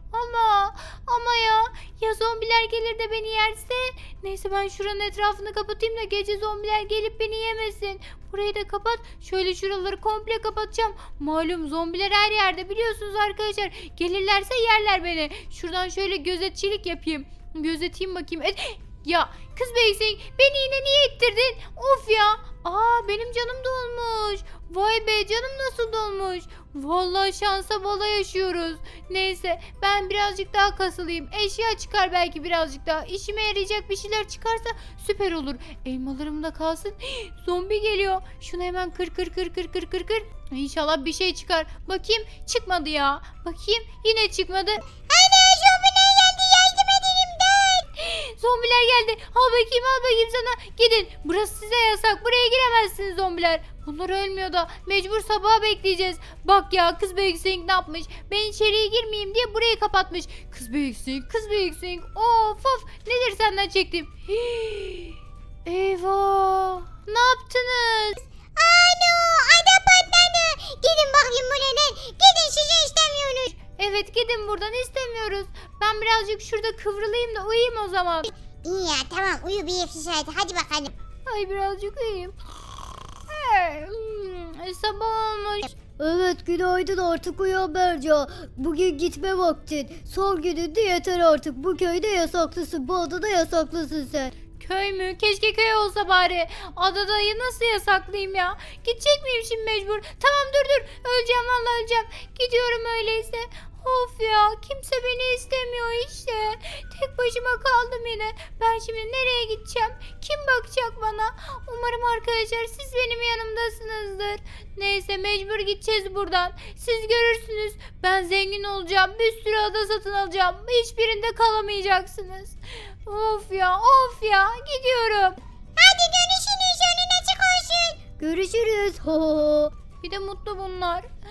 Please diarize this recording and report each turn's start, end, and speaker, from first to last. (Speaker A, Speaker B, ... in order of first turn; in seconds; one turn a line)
Speaker A: 0.1-44.8
Speaker B: 45.1-47.8
Speaker A: 48.0-68.2
Speaker B: 68.5-73.5
Speaker A: 73.5-78.3
Speaker B: 78.6-80.9
Speaker A: 81.2-82.3
Speaker A: 83.3-85.7
Speaker C: 86.0-94.3
Speaker A: 94.6-125.4
Speaker B: 125.8-128.0
Speaker C: 128.2-129.7
Speaker A: 130.0-131.1